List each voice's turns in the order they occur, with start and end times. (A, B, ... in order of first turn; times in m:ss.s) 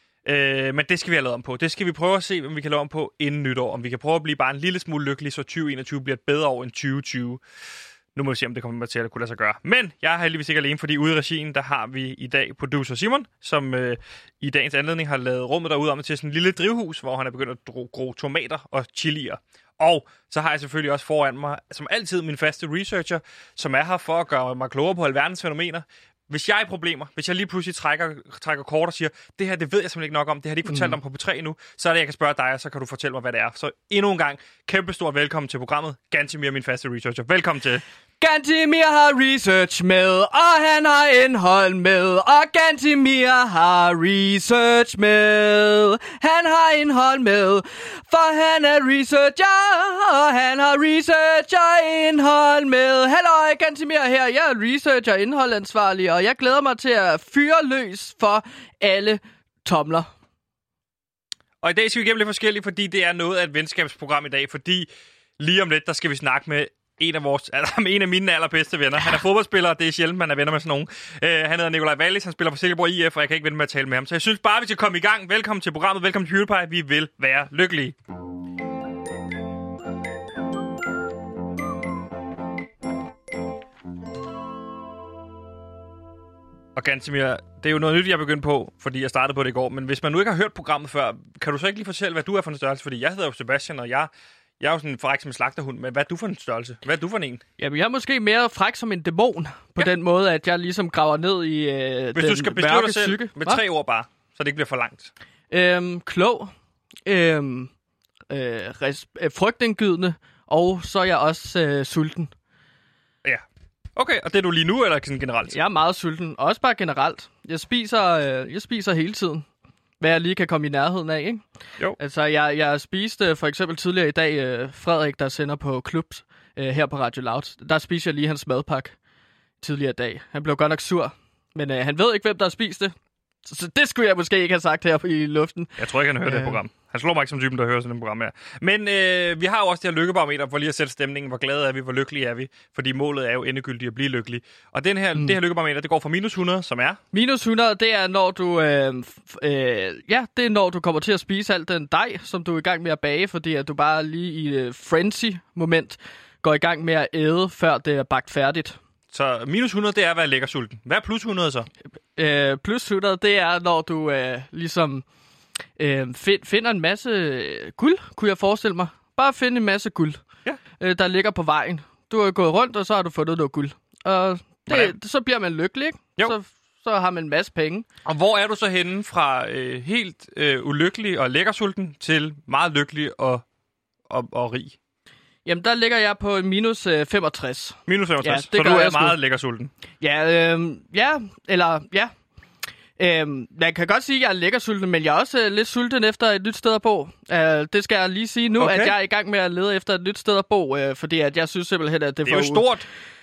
0:00.2-0:07.4 A
0:08.1-0:37.8 A
0:30.7-0:31.0 B
0:38.2-1:00.1 B
1:01.6-1:17.9 A
1:26.8-1:37.4 A
1:37.6-1:43.6 B
1:42.1-1:45.1 A
1:45.5-1:46.5 B
1:47.0-1:47.7 B
1:48.3-1:52.3 B
1:54.0-1:55.6 A
1:55.5-1:59.4 B
2:00.0-2:01.4 B
2:02.0-2:08.9 B
2:09.6-2:12.9 B
2:13.4-2:16.6 B
2:15.8-2:27.0 A
2:27.1-2:38.8 B
2:39.1-2:41.7 A
2:42.2-2:45.0 B
2:45.8-2:50.2 B
2:50.8-2:57.8 B
2:54.7-2:54.9 A
2:58.0-3:03.4 A
3:04.1-3:04.8 A
3:05.4-3:09.2 B
3:07.9-3:09.7 A
3:10.0-3:12.1 B
3:13.0-3:22.6 B
3:18.6-3:19.0 A
3:22.2-3:22.8 A